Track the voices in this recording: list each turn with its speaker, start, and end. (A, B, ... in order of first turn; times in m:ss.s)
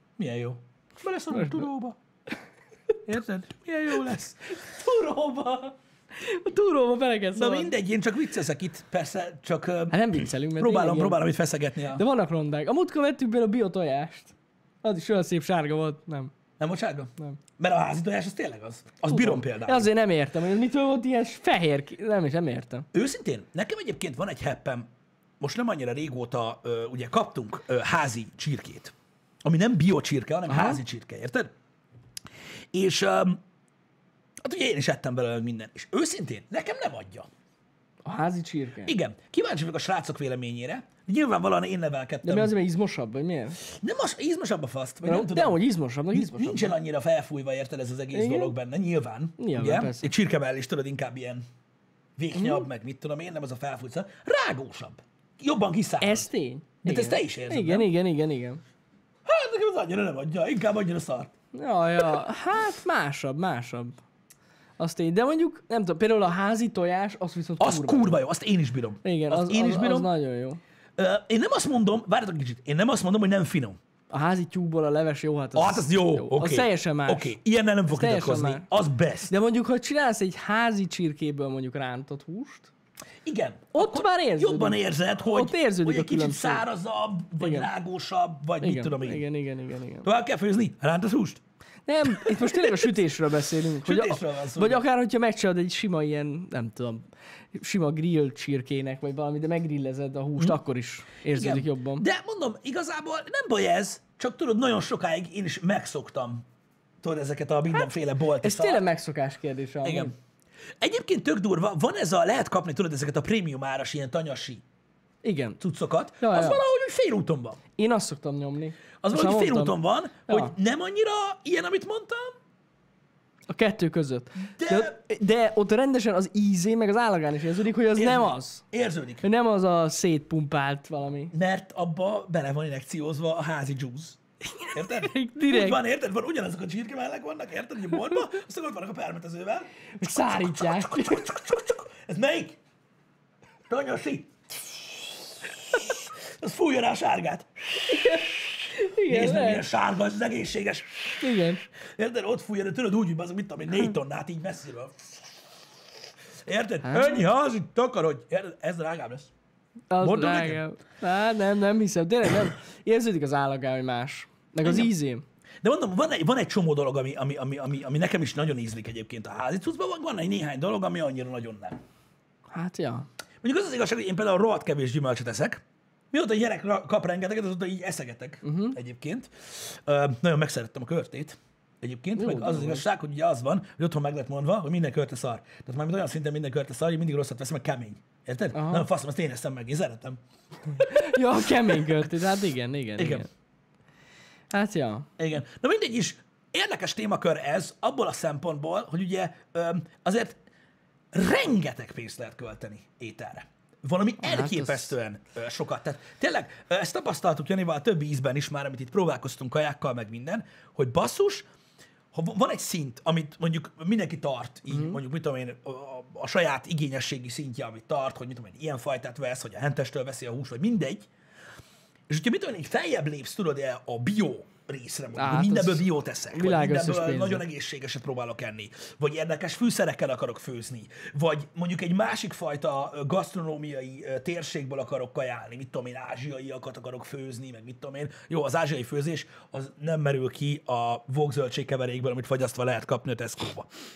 0:00.2-0:02.0 A
0:01.3-0:01.7 B
0:03.1-0:04.4 A
0:04.5-0:07.7 B
0:07.4-0:12.0 A
0:09.9-0:11.2 B
0:11.9-0:16.3 B
0:16.6-0:19.9 A
0:19.1-0:22.9 B
0:22.9-0:24.9 A
0:25.4-0:31.5 A
0:30.5-0:30.8 B
0:32.7-0:33.4 A
0:34.4-0:37.3 A
0:38.0-0:38.9 B
0:38.8-0:42.5 A
0:42.2-0:43.6 B
0:43.6-0:51.4 A
0:45.0-0:46.7 B
0:48.1-0:48.6 B
0:49.4-0:50.1 B
0:52.2-0:56.3 A
0:52.4-0:52.6 B
0:56.0-0:58.6 B
0:56.8-0:57.9 A
0:59.2-1:01.3 A
1:01.5-1:04.0 B
1:04.8-1:08.2 B
1:07.6-1:10.1 A
1:09.0-1:10.6 B
1:11.0-1:13.8 A
1:14.1-1:17.4 B
1:15.6-1:19.3 A
1:17.9-1:18.7 B
1:19.3-1:22.7 B
1:23.2-1:29.2 A
1:23.7-1:26.6 B
1:27.4-1:27.7 B
1:28.6-1:30.1 B
1:30.0-1:31.4 A
1:31.9-1:42.0 B
1:32.2-1:32.9 A
1:33.8-1:34.8 A
1:41.3-1:46.4 A
1:47.0-1:48.8 A
1:48.4-1:50.1 B
1:49.8-1:50.1 A
1:50.8-1:54.6 A
1:55.2-1:55.6 B
1:55.6-1:57.6 A
1:56.2-1:56.6 B
1:57.8-1:59.8 B
1:59.0-2:02.4 A
2:00.3-2:00.5 B
2:03.5-2:08.6 B
2:04.6-2:05.0 A
2:07.9-2:09.2 A
2:09.2-2:11.3 B
2:11.3-2:14.2 A
2:14.6-2:15.8 B
2:14.7-2:19.7 A
2:20.0-2:21.5 B
2:20.3-2:22.6 A
2:23.7-2:28.3 A
2:27.9-2:29.7 B
2:29.1-2:35.3 A
2:31.2-2:31.7 B
2:36.4-2:39.3 A
2:36.8-2:37.2 B
2:39.9-2:45.2 B
2:40.0-2:40.6 A
2:44.6-2:44.9 A
2:45.6-2:51.8 A
2:52.5-2:53.1 B
2:53.4-3:10.2 A
2:58.4-2:58.8 B
3:02.2-3:02.8 B
3:08.5-3:08.9 B
3:10.7-3:12.1 A
3:10.7-3:13.3 B
3:13.0-3:13.3 A
3:14.5-3:15.1 B
3:15.2-3:20.4 A
3:21.1-3:31.5 A
3:24.2-3:24.9 B
3:32.1-3:41.1 A
3:34.7-3:35.0 B
3:42.1-4:03.7 A
3:45.1-3:47.4 B